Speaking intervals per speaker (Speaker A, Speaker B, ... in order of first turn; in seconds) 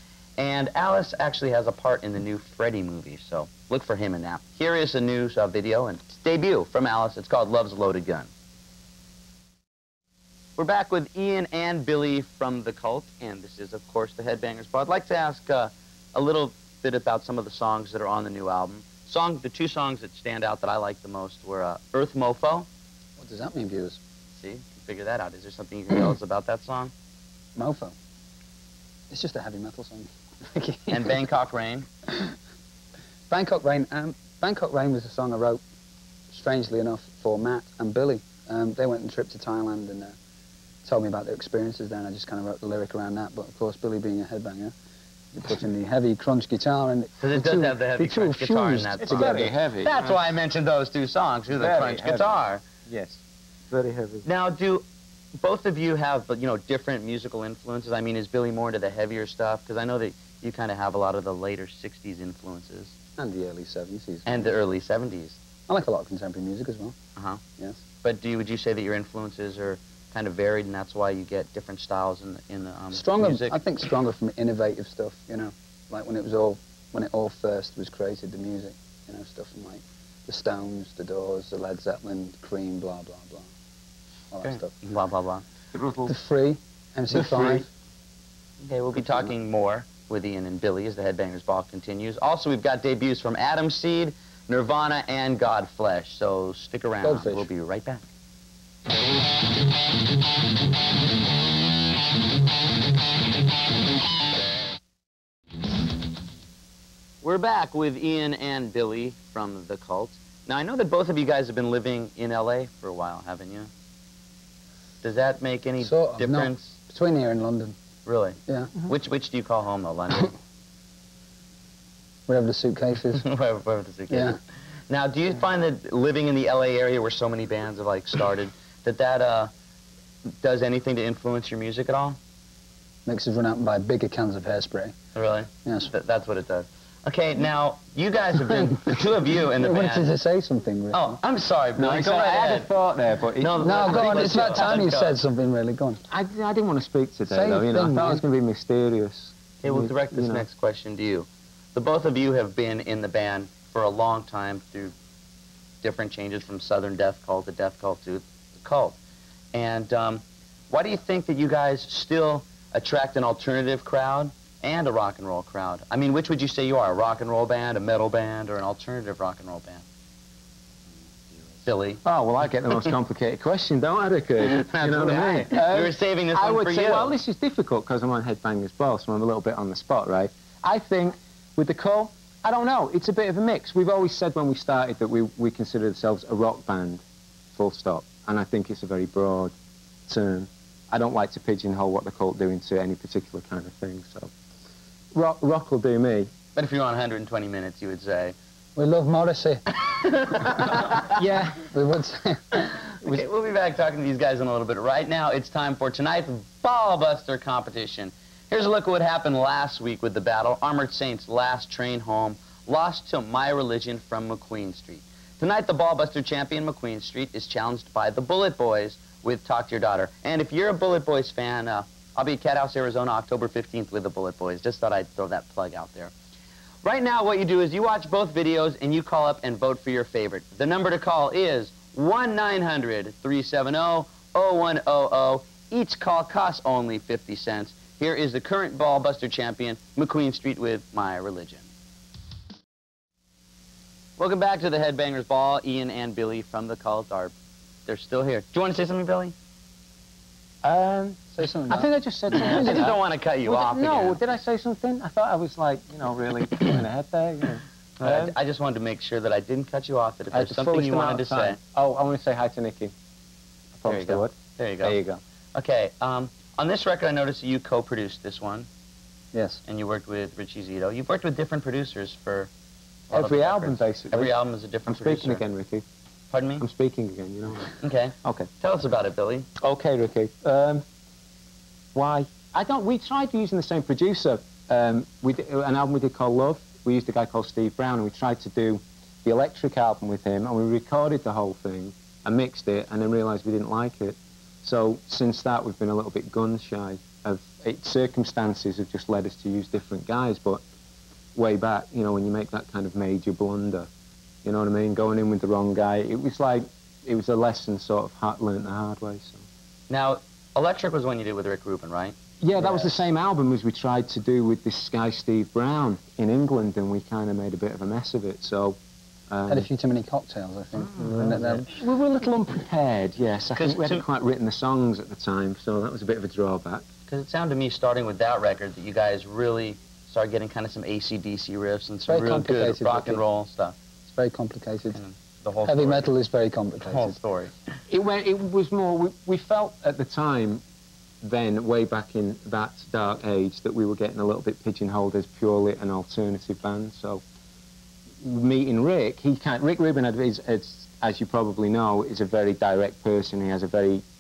Speaker A: 0.4-8.3, 10.6-22.7, 24.3-26.9, 30.9-31.9, 47.2-52.6, 54.2-54.8, 55.4-62.9, 64.2-65.4, 68.0-73.6, 84.4-85.4, 88.6-98.0, 107.2-113.7, 115.0-116.7, 118.0-120.3, 123.1-124.4, 124.9-129.5, 130.4-132.2, 135.1-140.1, 140.9-142.7, 143.4-145.1, 149.6-154.9, 155.8-159.0, 159.5-169.8, 171.6-172.0, 174.4-177.2, 196.5-198.3, 199.8-201.2, 202.6-226.1, 226.8-241.6, 244.2-247.3, 247.9-249.3, 252.4-254.3, 258.0-261.6, 263.9-265.0, 265.5-268.7, 269.6-272.5, 273.1-275.4, 276.3-276.6, 277.8-279.5, 309.9-312.1, 323.6-324.0, 327.1-333.7, 334.9-336.1, 336.8-337.5
Speaker B: 23.2-24.0, 27.6-27.9, 29.1-31.2, 33.3-35.6, 36.3-40.1, 40.8-44.7, 45.3-49.5, 63.2-64.6, 65.7-67.0, 72.9-83.5, 84.3-84.7, 86.0-87.7, 89.0-89.3, 97.0-97.5, 115.8-117.7, 118.5-118.7, 122.3-123.2, 124.1-124.4, 133.1-134.9, 135.6-135.9, 138.5-138.9, 139.6-141.2, 143.6-146.0, 147.2-148.2, 198.8-199.6, 201.7-202.7, 251.3-251.9, 269.3-269.6, 312.6-312.9, 319.5-321.7, 332.1-333.2, 334.1-335.0, 335.6-337.2
Speaker C: 49.0-50.3, 51.5-54.2, 85.7-86.1, 87.1-87.6, 141.8-144.9, 146.1-150.4, 172.1-187.0, 187.5-189.5, 190.1-194.3, 195.1-196.3, 201.1-201.6, 250.6-258.3, 260.3-262.9, 263.8-265.2, 273.1-274.3, 274.9-275.8, 276.6-278.5, 279.6-280.8, 281.9-300.6, 301.4-303.9, 304.4-309.4, 312.4-318.8, 319.3-319.7, 321.0-326.8, 337.9-340.6, 341.2-347.2, 348.2-354.0